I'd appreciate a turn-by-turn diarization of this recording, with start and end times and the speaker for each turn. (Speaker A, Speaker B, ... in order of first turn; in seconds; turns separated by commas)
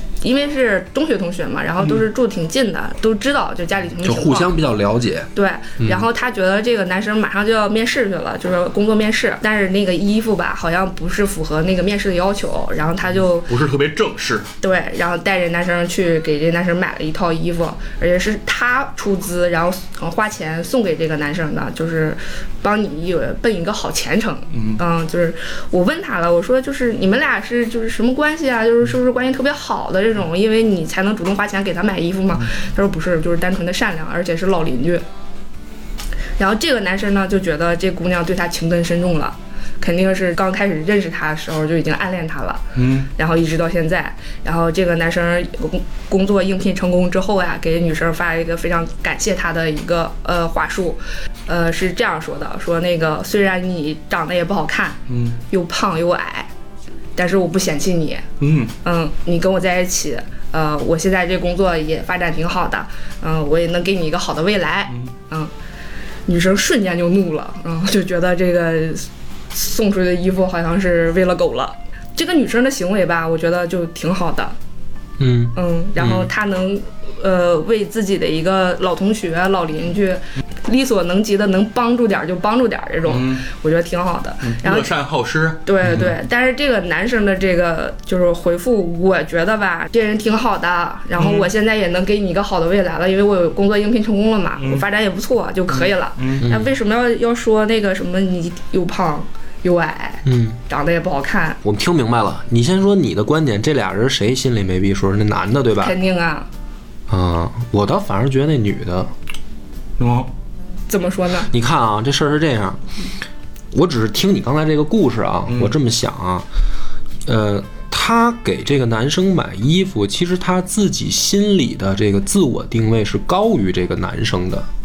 Speaker A: 0.2-4.6, Speaker B: 1.8-2.1, Speaker C: 4.0-6.0, Speaker A: 5.3-13.5, Speaker B: 13.4-14.5, Speaker A: 14.6-35.0, Speaker B: 24.5-24.8, Speaker A: 36.4-42.6, Speaker B: 42.8-43.1, Speaker A: 43.2-55.0, Speaker B: 55.1-55.4, Speaker A: 55.5-56.5, Speaker A: 57.2-58.2, Speaker B: 58.4-58.7, Speaker A: 58.8-65.5, Speaker A: 66.3-74.5, Speaker C: 75.2-76.3, Speaker A: 75.5-84.9, Speaker B: 83.0-83.5, Speaker B: 84.4-85.6, Speaker A: 85.7-101.6, Speaker C: 85.8-86.1, Speaker B: 91.2-91.5, Speaker B: 94.6-94.8, Speaker B: 95.7-96.5, Speaker C: 96.4-96.7, Speaker C: 100.2-100.6, Speaker C: 101.6-106.0, Speaker A: 105.8-106.5, Speaker C: 107.1-109.1, Speaker B: 110.0-110.3, Speaker A: 110.9-111.5, Speaker C: 111.5-112.8, Speaker C: 113.7-116.5, Speaker B: 115.5-115.8, Speaker C: 117.2-124.7